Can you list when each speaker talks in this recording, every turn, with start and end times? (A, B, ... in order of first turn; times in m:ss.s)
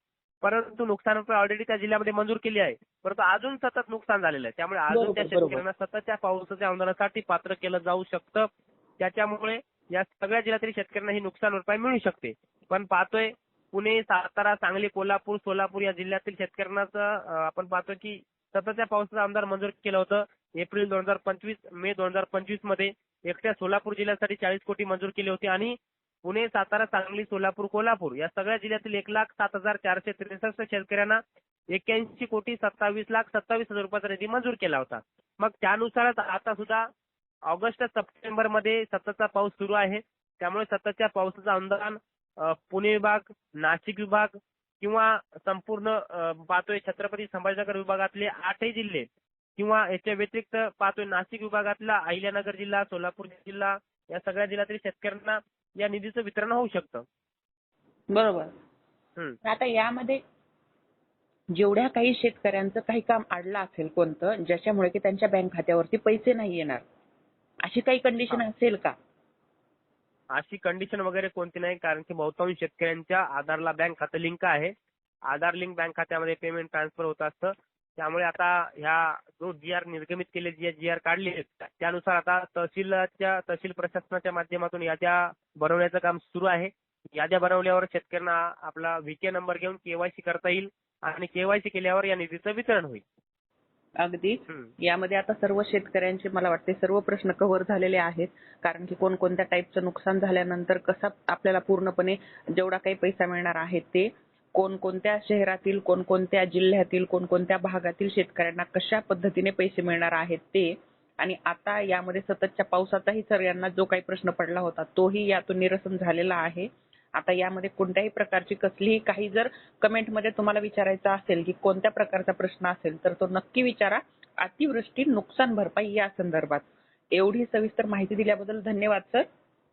0:00.4-0:31.2 A
0:04.9-0:05.6 B
0:31.7-0:36.9 A
0:37.4-0:49.1 A
0:49.6-0:57.0 A
0:58.1-0:58.5 B
0:59.4-1:00.2 B
1:01.5-1:06.8 B
1:07.6-1:08.9 B
1:10.3-1:14.7 A
1:15.3-1:33.0 A
1:34.0-2:09.2 B